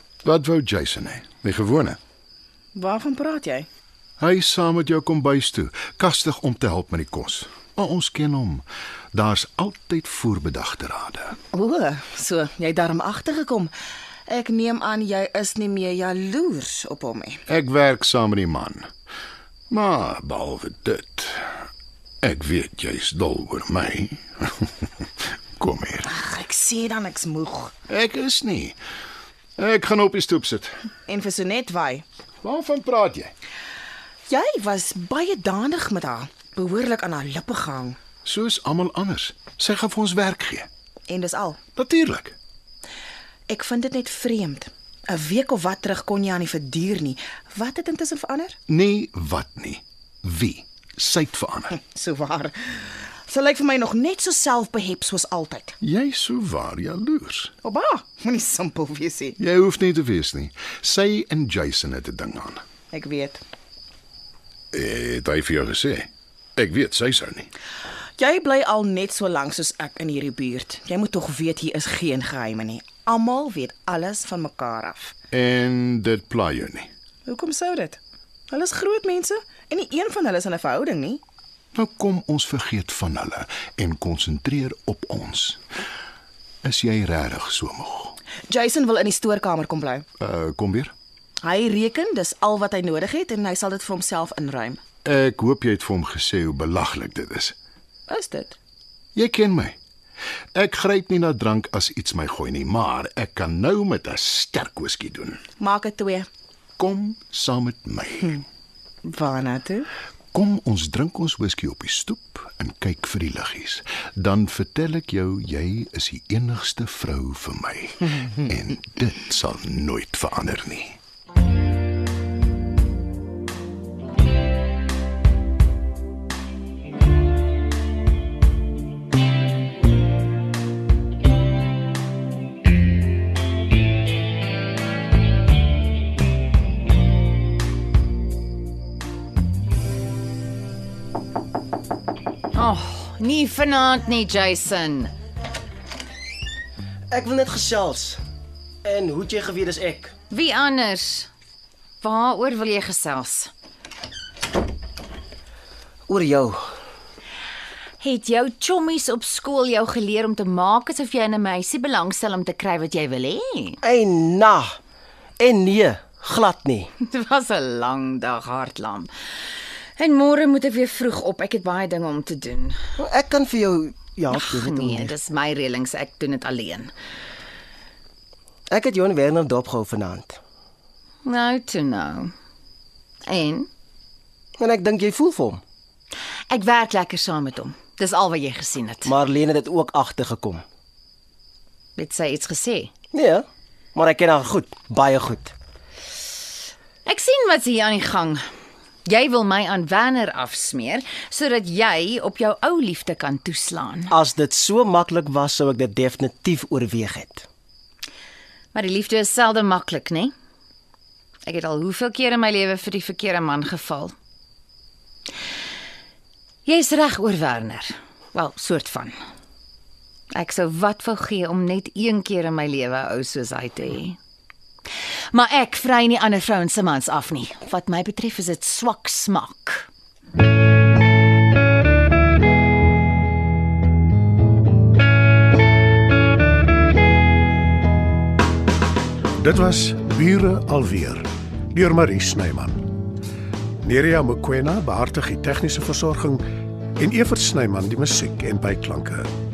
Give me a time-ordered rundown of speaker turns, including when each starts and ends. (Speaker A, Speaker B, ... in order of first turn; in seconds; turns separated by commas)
Speaker A: 0.2-2.0, Speaker B: 2.7-3.7, Speaker A: 4.2-11.4, Speaker B: 11.5-13.7, Speaker B: 14.3-17.4, Speaker A: 17.5-18.9, Speaker A: 19.7-21.5, Speaker A: 22.2-24.9, Speaker A: 25.6-26.1, Speaker B: 26.1-27.7, Speaker A: 27.9-28.8, Speaker A: 29.6-30.7, Speaker B: 31.1-32.0, Speaker A: 32.4-33.3, Speaker B: 34.3-38.0, Speaker A: 38.2-40.7, Speaker B: 41.1-41.6, Speaker A: 41.7-42.3, Speaker B: 43.5-48.5, Speaker A: 48.7-51.7, Speaker B: 51.8-55.7, Speaker A: 55.8-57.5, Speaker B: 57.6-59.4, Speaker A: 59.4-62.6, Speaker B: 62.9-63.4, Speaker A: 64.7-67.5, Speaker B: 68.2-75.1, Speaker A: 75.3-76.9, Speaker B: 77.2-78.0, Speaker B: 78.5-81.2, Speaker A: 81.7-85.6, Speaker A: 86.6-88.2, Speaker B: 88.5-90.0, Speaker A: 90.2-90.9, Speaker B: 91.4-94.8, Speaker A: 95.0-97.5, Speaker B: 98.1-98.5, Speaker A: 99.1-99.8, Speaker A: 100.5-105.4, Speaker B: 105.6-106.3, Speaker A: 106.8-108.4, Speaker B: 109.0-109.9, Speaker A: 110.3-121.0, Speaker C: 142.5-145.1, Speaker D: 147.1-148.2, Speaker D: 148.8-150.1, Speaker C: 150.3-151.3, Speaker C: 152.0-153.5, Speaker D: 156.1-156.6, Speaker C: 158.0-163.8, Speaker D: 163.8-164.8, Speaker D: 165.4-166.9, Speaker C: 167.0-169.1, Speaker C: 170.0-172.8, Speaker D: 173.0-175.1, Speaker C: 174.3-176.9, Speaker D: 178.7-180.4, Speaker C: 181.2-182.3, Speaker C: 183.3-183.7, Speaker D: 184.6-185.6, Speaker C: 186.5-189.1, Speaker D: 189.0-190.6, Speaker C: 191.9-192.9, Speaker D: 193.1-195.5, Speaker C: 197.1-198.4, Speaker C: 199.1-204.1, Speaker D: 204.1-207.4, Speaker C: 208.7-210.3, Speaker C: 211.4-214.1, Speaker C: 216.7-219.1, Speaker C: 220.3-224.2, Speaker C: 225.3-229.9, Speaker E: 239.4-242.8, Speaker E: 243.8-246.4, Speaker E: 247.0-249.3